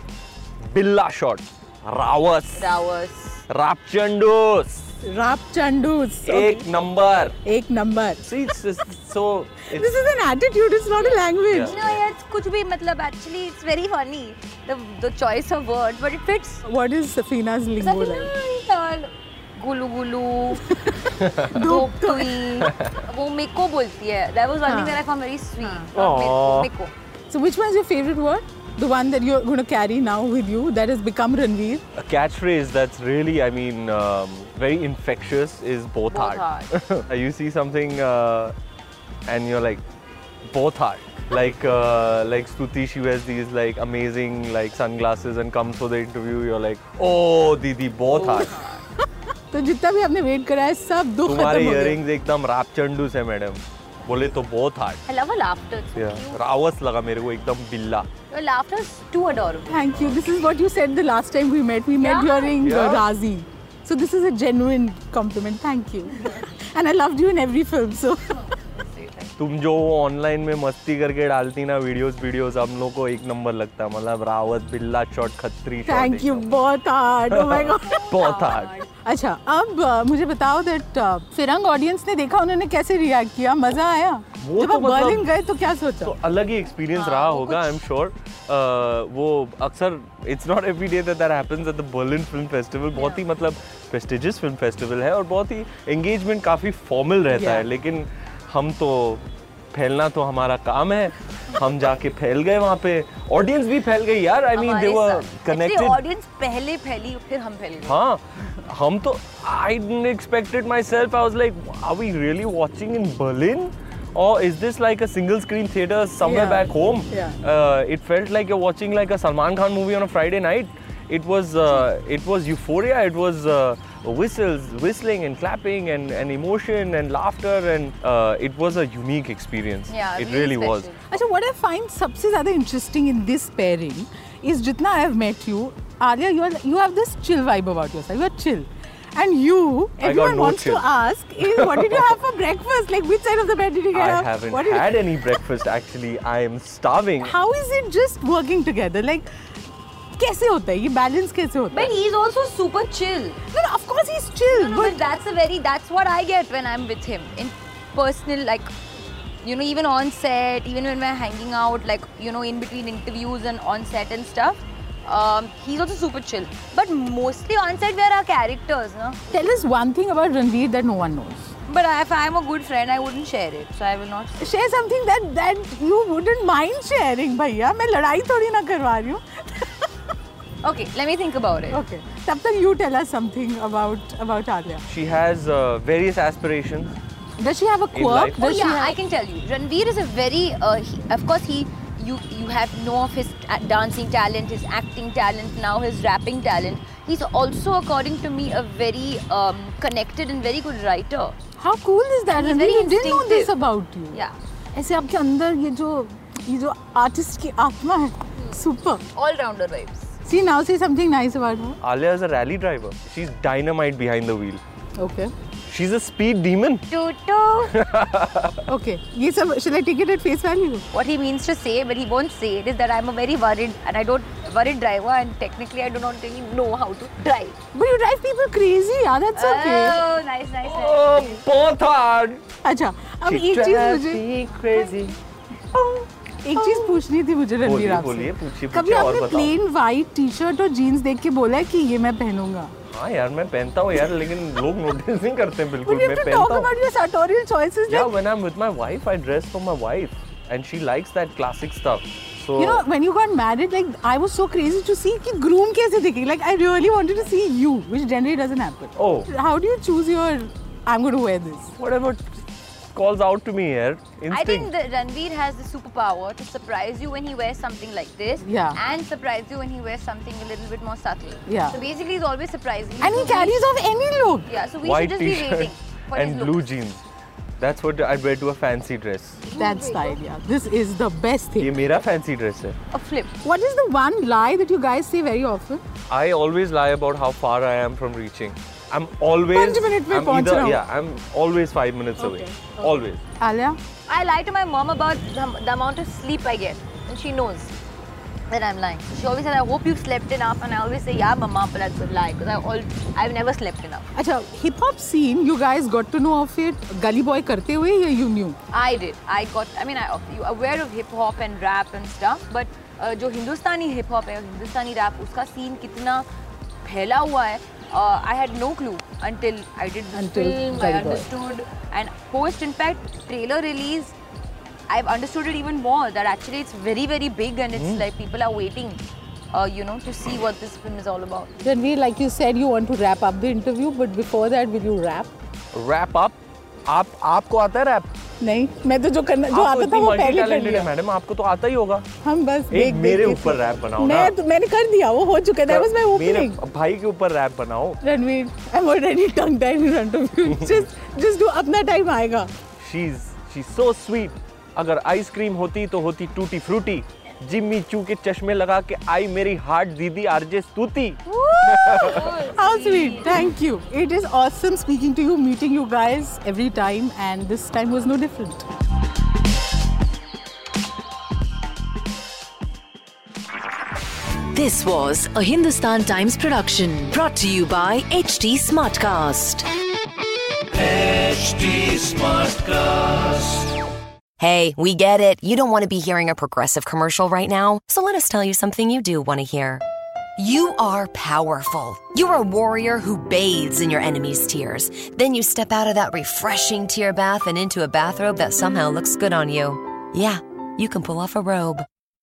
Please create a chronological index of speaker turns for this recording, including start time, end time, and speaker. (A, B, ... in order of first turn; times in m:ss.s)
0:00.7-0:02.7 A
0:02.5-0:03.4 B
0:03.5-0:04.9 A
0:05.0-0:06.7 C
0:06.2-0:07.4 A
0:07.4-0:08.3 C
0:08.2-0:10.0 A
0:09.7-0:11.8 C
0:10.9-0:16.6 B
0:11.4-0:12.0 A
0:16.6-0:18.3 C
0:17.8-0:20.6 B
0:21.2-0:21.6 A
0:21.4-0:22.3 C
0:21.5-0:26.9 B
0:22.6-0:22.9 A
0:24.6-0:25.0 C
0:25.6-0:25.9 C
0:25.9-0:26.7 A
0:27.3-0:31.8 C
0:32.0-0:38.5 A
0:36.1-0:36.7 B
0:39.3-0:39.8 A
0:40.5-0:48.6 A
0:48.1-0:48.8 B
0:49.5-0:52.0 C
0:51.2-0:55.0 A
0:55.1-0:56.4 B
0:55.9-0:58.1 A
0:58.3-0:59.8 B
0:59.7-1:08.4 C
0:59.9-1:00.2 A
1:02.0-1:02.6 B
1:02.6-1:03.1 A
1:08.6-1:09.3 B
1:09.4-1:16.5 A
1:15.8-1:18.0 C
1:17.3-1:18.8 A
1:17.8-1:18.9 B
1:19.0-1:26.1 C
1:24.4-1:25.3 A
1:26.0-1:46.0 A
1:26.9-1:27.8 B
1:32.9-1:33.2 B
1:37.3-1:37.7 C
1:44.5-1:48.0 B
1:47.8-2:10.9 A
1:56.2-1:57.4 C
2:09.9-2:11.0 B
2:11.1-2:25.0 C
2:20.0-2:20.9 A
2:21.4-2:22.2 A
2:23.9-2:27.3 A
2:27.2-2:29.3 C
2:30.1-2:31.9 C
2:31.7-2:33.4 B
2:33.5-2:35.0 C
2:34.5-2:38.7 B
2:39.4-2:49.2 B
2:49.3-2:51.5 C
2:51.7-2:54.5 B
2:54.4-2:59.9 C
3:00.6-3:01.8 B
3:01.7-3:04.8 C
3:04.9-3:07.0 A
3:07.4-3:09.0 C
3:07.9-3:08.4 A
3:08.4-3:21.4 B
3:21.6-3:24.2 C
3:22.3-3:23.5 B
3:24.7-3:29.0 C
3:29.1-3:30.2 B
3:30.2-3:31.8 C
3:31.8-3:34.6 A
3:35.0-3:35.3 C
3:35.7-3:36.9 A
3:36.9-3:37.8 B
3:37.7-3:38.6 A
3:38.7-3:40.8 C
3:40.9-3:47.6 B
3:47.7-3:50.0 C
3:49.3-3:51.4 B
3:50.6-3:52.4 A
3:52.6-3:54.2 C
3:53.2-3:55.2 A
3:56.4-4:02.7 C
3:56.6-3:57.0 B
3:57.6-3:59.5 A
4:02.9-4:06.7 A
4:05.8-4:08.1 C
4:07.9-4:12.8 A
4:12.6-4:21.7 C
4:19.0-4:19.3 A
4:21.8-4:22.2 A
4:22.9-4:24.7 A
4:24.3-4:33.6 B
4:28.4-4:28.8 C
4:31.4-4:31.8 C
4:33.0-4:34.5 C
4:34.4-4:36.8 B
4:34.8-4:37.0 A
4:37.6-4:39.4 A
4:39.4-4:40.2 B
4:39.6-4:41.7 C
4:41.6-4:42.8 A
4:42.9-4:43.3 B
4:43.4-4:45.8 C
4:46.1-4:53.2 A
4:49.5-4:50.8 C
4:52.2-4:53.8 C
4:54.1-4:57.7 B
4:58.5-5:04.1 B
5:04.1-5:08.6 C
5:08.7-5:16.2 B
5:16.8-5:24.2 B
5:20.1-5:21.3 C
5:24.9-5:29.0 B
5:27.7-5:28.0 A
5:29.5-5:31.5 B
5:31.6-5:35.3 C
5:35.7-5:36.4 A
5:36.9-5:38.1 A
5:38.4-5:40.9 C
5:39.5-5:42.0 A
5:42.2-5:46.6 C
5:42.7-5:44.3 A
5:45.6-5:48.0 A
5:48.0-5:52.5 C
5:50.5-5:50.8 A
5:52.8-6:02.2 A
6:01.3-6:08.6 C
6:01.9-6:03.6 B
6:14.5-6:19.7 D
6:24.4-6:29.8 E
6:30.4-6:41.8 E